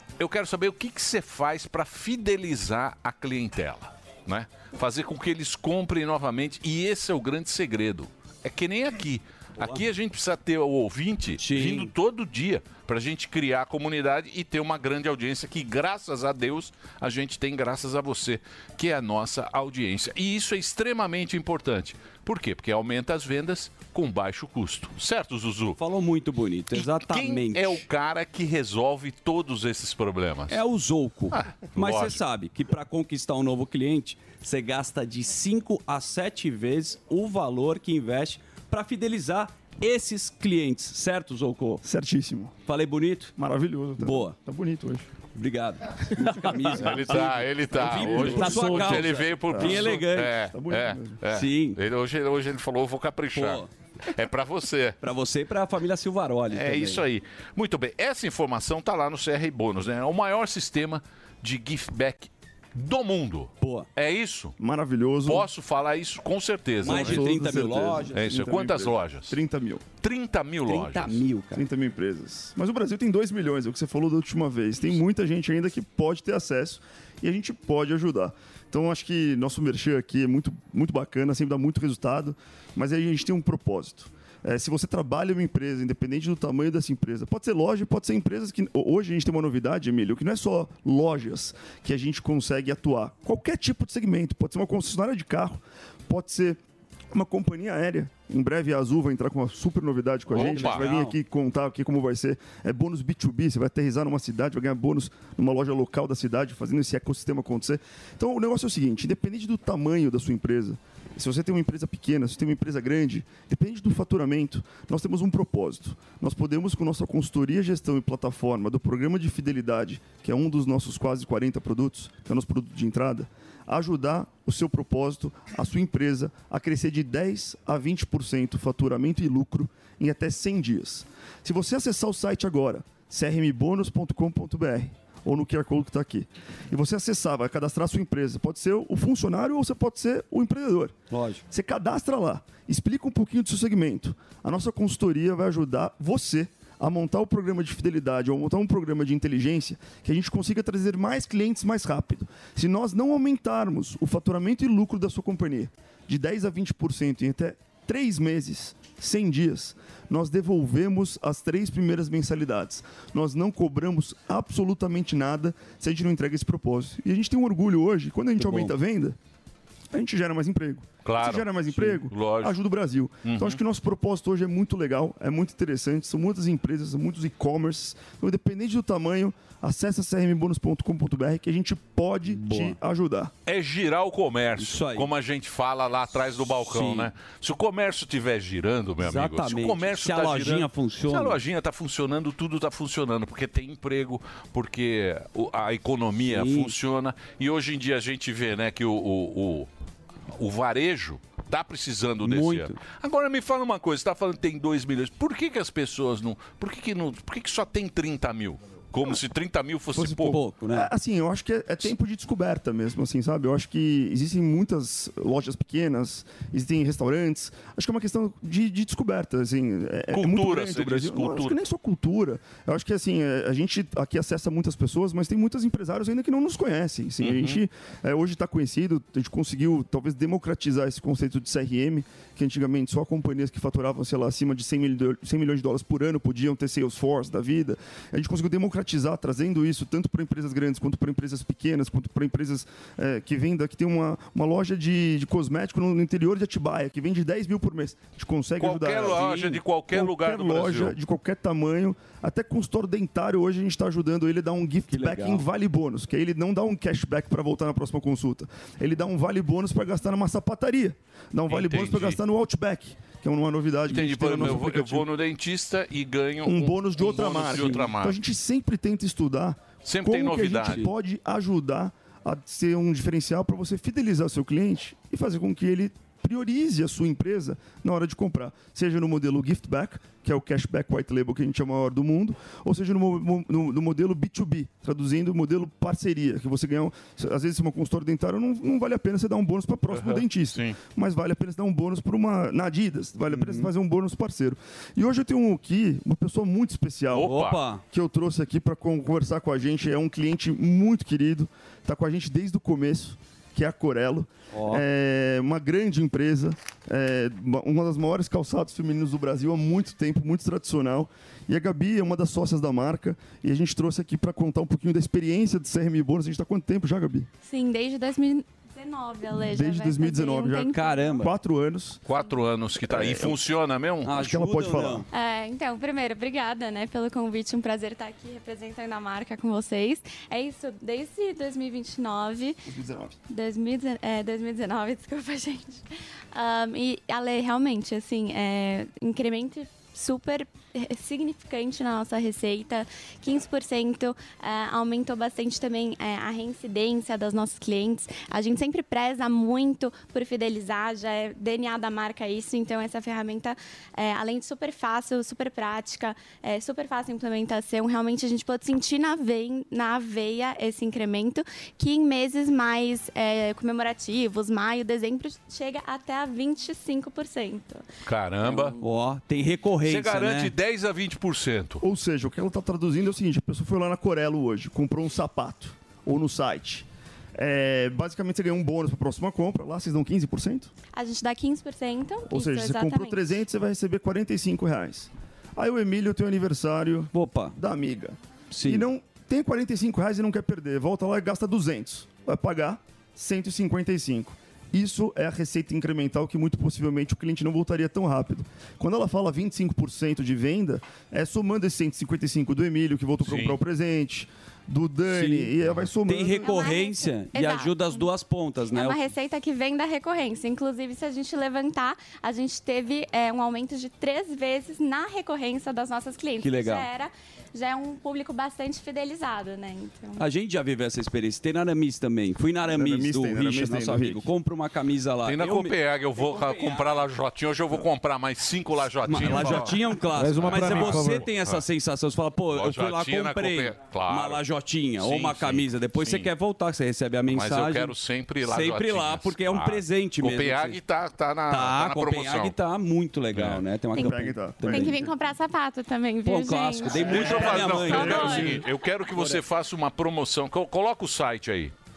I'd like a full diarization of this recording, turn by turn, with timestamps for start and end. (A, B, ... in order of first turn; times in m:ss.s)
0:00.2-0:25.8 A
0:09.6-0:09.8 B
0:11.4-0:11.9 B
0:25.8-0:27.8 B
0:26.7-0:30.6 A
0:30.5-0:41.8 B
0:31.3-0:32.2 A
0:41.8-0:42.5 C
0:42.6-0:43.3 B
0:43.4-0:45.1 C
0:44.0-0:44.4 B
0:45.3-0:50.4 B
0:46.6-0:55.0 A
0:47.7-0:51.2 C
0:51.3-0:51.8 B
0:53.3-0:53.7 B
0:55.0-0:57.0 B
0:56.5-1:04.5 A
1:03.6-1:03.9 B
1:04.6-1:05.5 C
1:05.2-1:07.4 A
1:06.8-1:08.2 B
1:06.8-1:09.8 C
1:08.1-1:09.4 A
1:10.0-1:11.2 A
1:10.6-1:11.6 B
1:11.5-1:36.6 C
1:37.1-2:21.0 C
1:40.3-1:41.2 B
1:40.3-1:40.9 A
2:21.1-2:21.4 B
2:21.5-2:49.1 C
2:48.4-2:48.7 B
2:49.9-3:03.3 C
2:51.0-2:52.6 A
2:53.2-2:53.6 A
3:02.3-3:02.8 B
3:03.4-3:19.7 A
3:04.6-3:05.1 B
3:06.6-3:07.1 B
3:09.0-3:11.4 B
3:16.2-3:16.7 B
3:20.4-3:30.4 A
3:22.2-3:22.8 B
3:30.0-4:25.1 C
3:30.2-3:30.9 B
3:40.1-3:41.6 A
3:47.2-3:47.6 A
4:08.6-4:11.0 A
4:14.9-4:15.4 B
4:21.5-4:22.2 A
4:23.9-4:28.2 A
4:26.4-4:57.3 C
4:29.8-4:30.8 A
4:49.9-4:50.8 A
4:53.3-4:53.7 B
4:57.1-4:57.6 A
4:57.2-4:57.8 B
4:57.9-5:17.3 C
5:04.5-5:04.8 B
5:17.4-5:21.2 D
5:19.5-5:22.0 C
5:20.6-5:21.3 B
5:22.0-5:24.3 A
5:22.9-5:23.4 C
5:24.0-5:25.0 B
5:24.1-5:25.0 C
5:25.1-5:32.6 D
5:32.6-5:33.2 C
5:33.3-6:07.8 D
6:08.0-6:08.8 A
6:08.4-6:08.7 D
6:08.8-6:10.5 B
6:09.8-6:11.8 A
6:11.8-6:16.8 C
6:17.4-6:20.7 C
6:20.9-6:23.3 D
6:22.3-6:46.6 C
6:27.1-6:27.5 B
6:28.5-6:28.9 B
6:43.2-6:43.6 A
6:45.1-6:49.0 B
6:46.4-6:48.1 D
6:48.7-7:00.2 D
6:56.4-6:56.9 B
7:00.2-7:06.9 B
7:02.7-7:04.3 C
7:05.2-7:11.6 A
7:09.0-7:20.8 B
7:12.5-7:14.4 A
7:15.0-7:16.3 A
7:17.3-7:22.6 A
7:21.5-7:25.1 B
7:23.3-7:23.6 A
7:23.9-7:28.6 D
7:24.0-7:25.2 C
7:26.2-7:28.6 B
7:26.9-7:31.7 A
7:29.1-7:29.4 B